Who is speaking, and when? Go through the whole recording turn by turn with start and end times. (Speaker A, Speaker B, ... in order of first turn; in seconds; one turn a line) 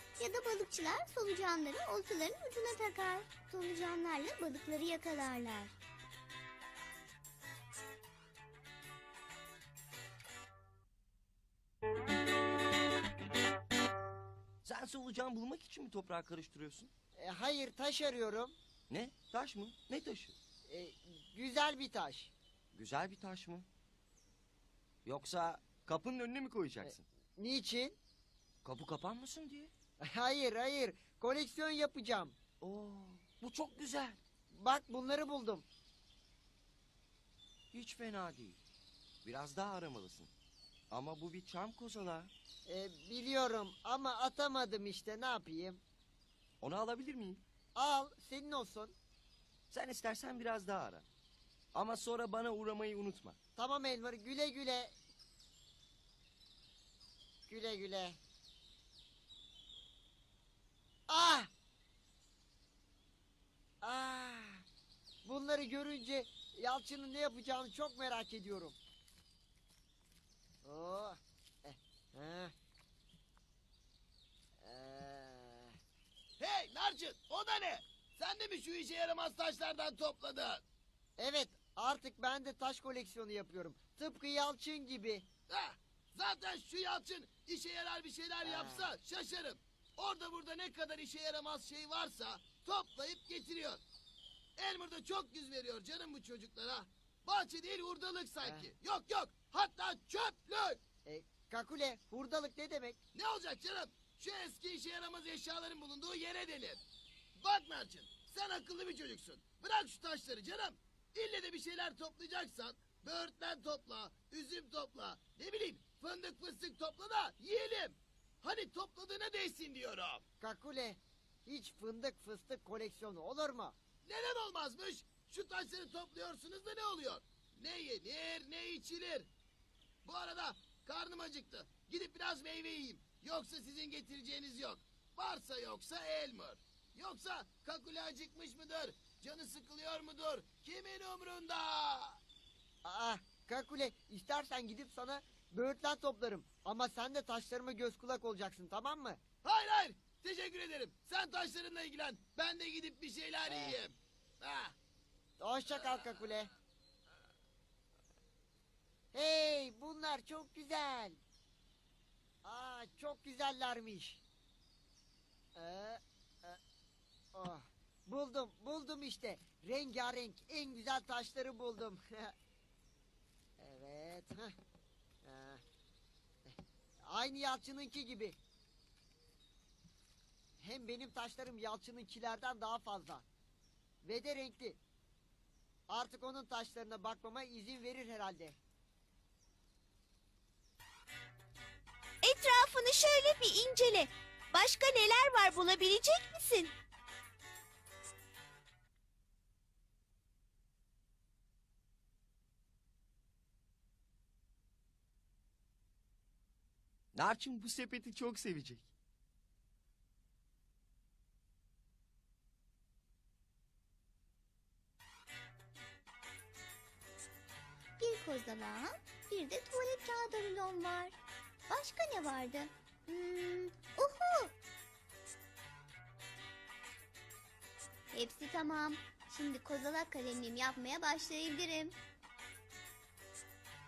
Speaker A: 0.2-5.7
Speaker B: 14.6-16.9
Speaker C: 17.2-18.6
Speaker B: 18.9-20.4
Speaker C: 20.7-22.3
Speaker B: 22.7-23.7
Speaker B: 25.1-27.0
Speaker C: 26.8-28.0
Speaker B: 28.6-29.7
Speaker C: 30.0-32.4
Speaker B: 32.6-34.2
Speaker C: 34.5-35.7
Speaker B: 37.7-38.6
Speaker B: 39.2-40.3
Speaker B: 40.9-42.3
Speaker C: 42.7-45.8
Speaker B: 46.6-47.4
Speaker C: 47.8-49.0
Speaker B: 49.7-51.1
Speaker B: 51.7-53.4
Speaker C: 53.6-54.9
Speaker C: 57.5-58.2
Speaker C: 61.1-61.5
Speaker C: 63.8-64.7
Speaker C: 65.2-68.8
Speaker C: 70.6-72.5
Speaker C: 74.6-75.8
Speaker D: 76.4-80.6
Speaker C: 81.2-85.3
Speaker D: 85.5-93.8
Speaker C: 88.4-88.9
Speaker D: 94.6-100.8
Speaker C: 98.4-98.7
Speaker C: 101.0-103.0
Speaker D: 103.1-106.8
Speaker D: 107.4-120.2
Speaker C: 120.4-123.8
Speaker D: 124.0-129.3
Speaker D: 130.1-142.2
Speaker C: 142.8-149.2
Speaker D: 149.4-154.7
Speaker C: 153.5-153.8
Speaker C: 155.4-156.5
Speaker C: 159.1-161.2
Speaker C: 162.4-164.2
Speaker C: 165.6-166.6
Speaker C: 167.3-172.3
Speaker C: 173.6-174.6
Speaker C: 175.2-175.6
Speaker C: 176.5-178.4
Speaker C: 180.6-183.2
Speaker C: 184.0-184.8
Speaker C: 185.9-188.6
Speaker E: 192.2-196.7
Speaker B: 207.1-208.9
Speaker A: 218.0-221.2
Speaker A: 221.7-224.5
Speaker A: 228.1-231.9